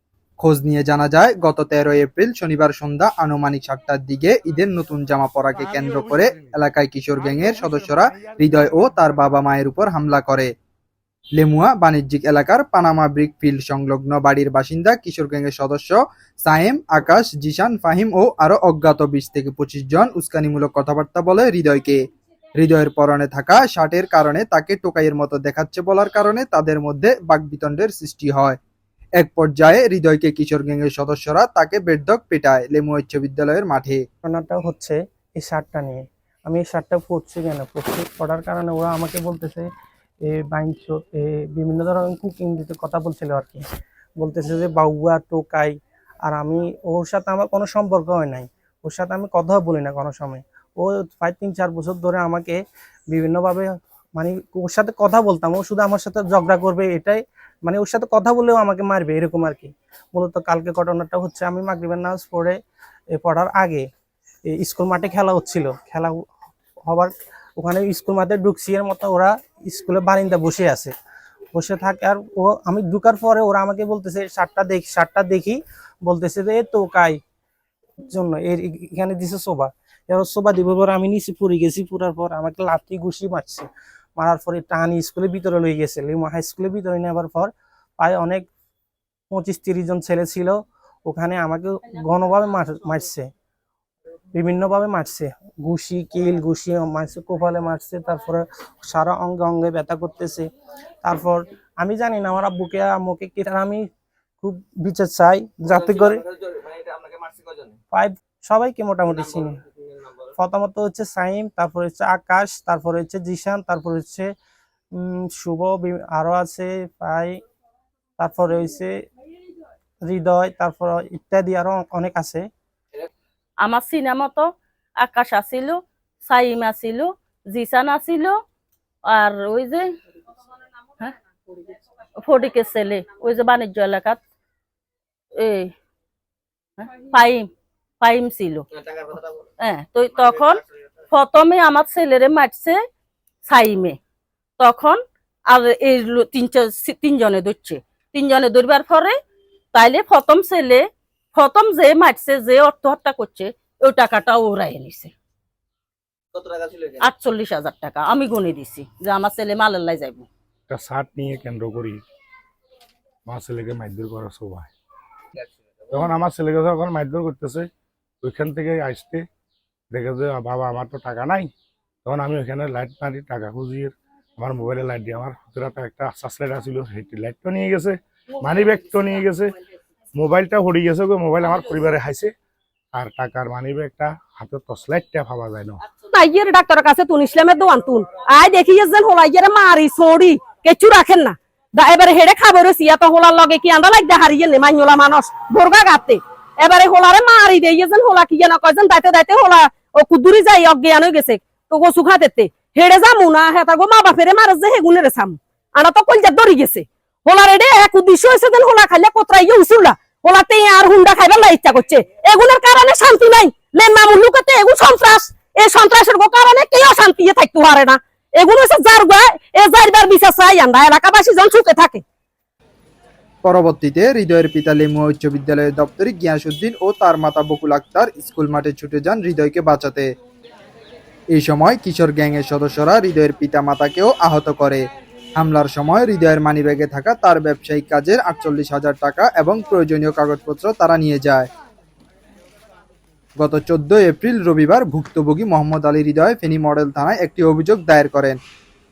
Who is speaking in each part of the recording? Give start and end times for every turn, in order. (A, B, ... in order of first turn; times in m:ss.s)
0:00.4-0:10.5 A
0:11.4-0:22.0 A
0:22.6-0:28.6 A
0:29.2-0:34.0 A
0:34.2-0:39.7 B
0:40.3-0:43.6 B
0:44.2-1:02.6 B
1:03.1-1:03.8 B
1:04.5-1:06.3 B
1:06.9-1:10.9 B
1:11.5-1:17.2 B
1:18.1-1:23.6 B
1:24.2-1:28.4 B
1:29.3-1:33.3 B
1:34.3-1:40.5 B
1:41.0-1:43.8 B
1:44.4-1:46.2 B
1:46.4-1:47.7 C
1:47.9-1:49.6 B
1:49.8-1:50.1 C
1:50.4-1:54.3 B
1:55.0-1:57.4 B
1:58.2-1:58.9 B
2:00.0-2:02.4 B
2:03.6-2:08.4 D
2:09.1-2:09.9 D
2:12.2-2:14.2 D
2:15.4-2:15.7 D
2:16.8-2:17.5 D
2:18.0-2:18.6 D
2:19.6-2:22.8 D
2:23.4-2:24.0 D
2:24.6-2:29.2 D
2:29.7-2:35.1 D
2:36.6-2:36.9 C
2:37.0-2:40.3 D
2:40.7-2:42.0 E
2:43.3-2:44.7 E
2:45.9-2:47.7 E
2:48.2-2:49.2 E
2:49.9-2:51.5 E
2:52.0-2:59.5 E
3:00.2-3:02.3 E
3:02.9-3:05.8 E
3:06.1-3:42.0 F
3:43.4-3:50.1 A
3:51.3-3:54.8 A
3:55.4-4:01.5 A
4:03.4-4:08.4 A